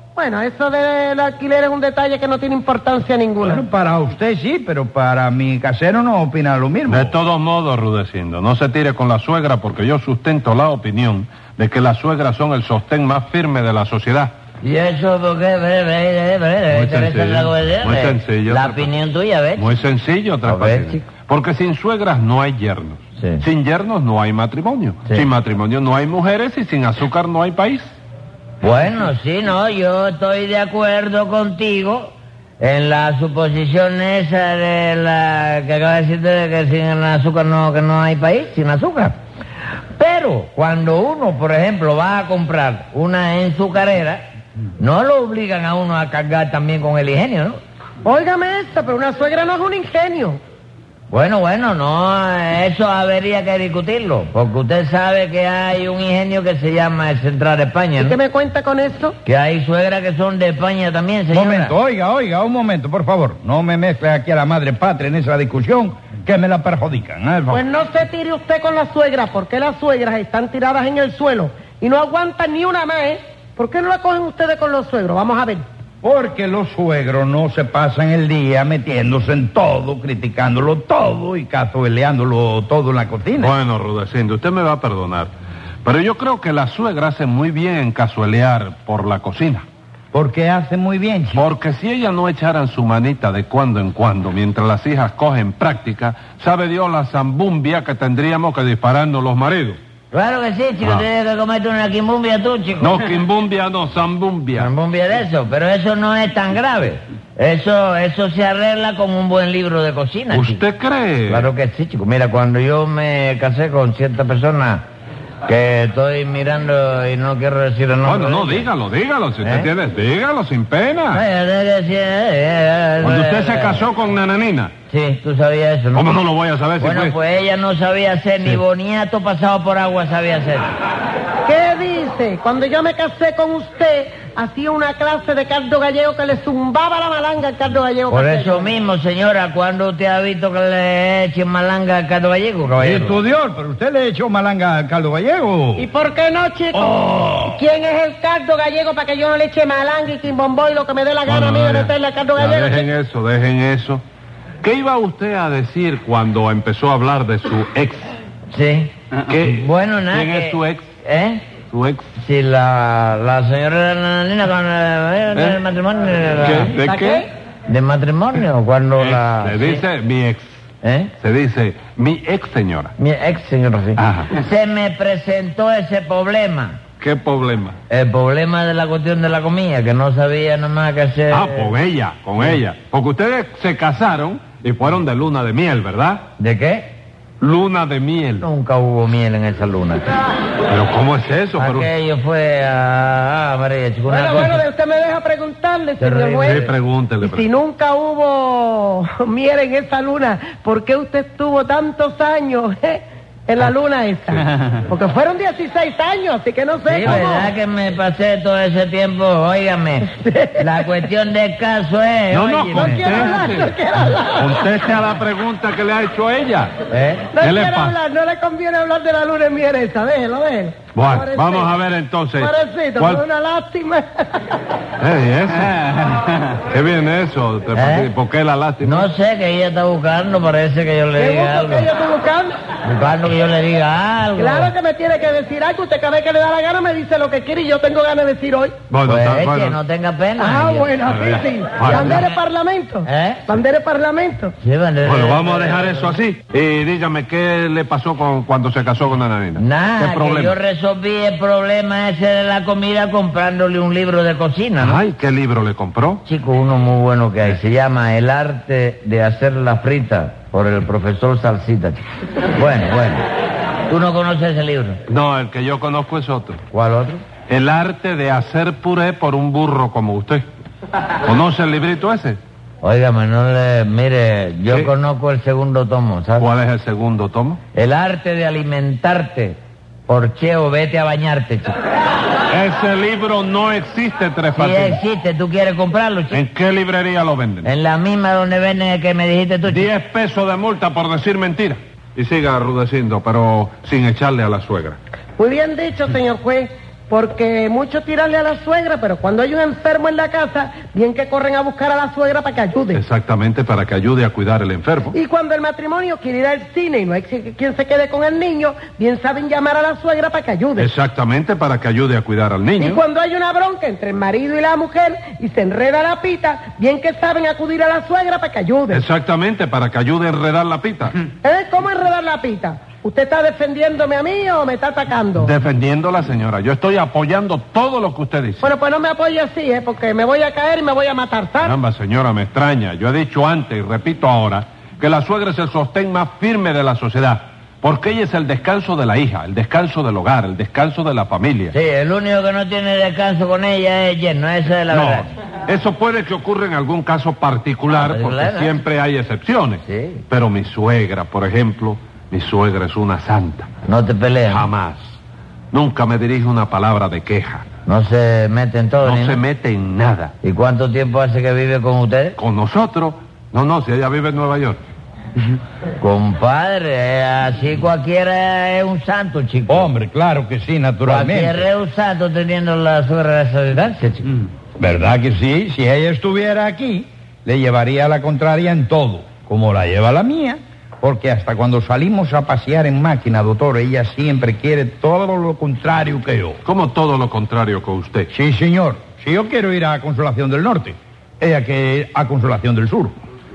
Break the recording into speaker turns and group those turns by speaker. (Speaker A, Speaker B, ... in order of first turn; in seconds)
Speaker A: 0.2-3.6, 48.0-50.4, 58.0-59.2, 67.5-75.7, 131.4-138.7, 145.8-152.9, 166.7-167.3, 194.1-207.5, 210.2-210.6, 212.7-214.6, 217.3-221.7, 222.4-224.7, 231.2-232.5, 234.3-238.8, 240.4-244.5, 295.4-303.0, 305.1-310.9, 312.8-319.0, 321.4-325.5, 328.6-331.8
Speaker B: 3.4-7.2, 61.3-67.6, 76.0-83.5, 90.1-91.5, 142.8-145.9, 146.8-147.6, 369.7-371.7, 374.8-386.6, 388.3-393.1
Speaker C: 6.9-14.3, 16.7-18.9, 19.6-27.9, 83.4-85.3, 85.8-89.7, 91.3-99.8, 102.8-104.7, 110.3-111.5, 118.0-121.2, 123.0-124.7, 125.9-127.2, 151.2-154.0, 154.6-158.1, 159.3-160.9, 161.7-162.1, 166.4-167.3, 169.0-170.6, 171.2-172.9, 174.0-174.3, 177.0-177.8, 181.3-186.2, 187.4-188.4, 190.7-191.9, 196.4-197.5, 212.3-213.7, 214.4-216.7, 217.4-218.0, 220.9-223.2, 225.0-225.8, 226.7-229.1, 238.9-239.8, 241.1-242.2, 245.0-250.6, 254.8-256.2, 265.1-266.6, 267.5-270.4, 271.2-272.4, 276.4-277.6, 282.5-285.0, 286.3-287.7, 289.7-295.0, 302.9-305.2, 310.8-313.0, 318.9-321.2, 325.4-328.7, 331.6-341.8, 344.9-353.7, 354.5-355.2, 355.7-357.7, 359.0-360.3, 362.4-364.8, 386.6-388.3
Speaker D: 14.6-19.7, 20.4-21.1, 28.6-39.2, 40.0-44.2, 44.8-47.6, 51.1-58.2, 59.2-61.8, 100.1-103.0, 104.5-110.6, 111.3-114.8, 115.5-118.7, 119.4-119.7, 121.1-123.8, 124.9-126.1, 126.8-130.7, 138.1-143.2, 158.5-161.4, 162.2-166.8, 167.7-169.8, 170.8-171.1, 173.0-176.8, 177.9-181.7, 186.4-186.9, 188.4-190.1, 191.6-194.6, 196.0-196.7, 206.9-213.4, 216.9-217.3, 227.7-228.1, 228.8-231.9, 232.8-234.7, 239.1-240.9, 243.1-243.5, 244.6-246.2, 249.6-255.0, 256.2-262.0, 262.5-263.3, 263.9-265.0, 266.7-267.2, 272.8-276.5, 277.7-281.7, 284.6-286.4, 287.6-289.9, 341.7-345.3, 347.9-348.7, 349.9-350.2, 353.9-354.7, 357.9-359.4, 360.4-362.4, 366.0-369.9, 371.1-374.4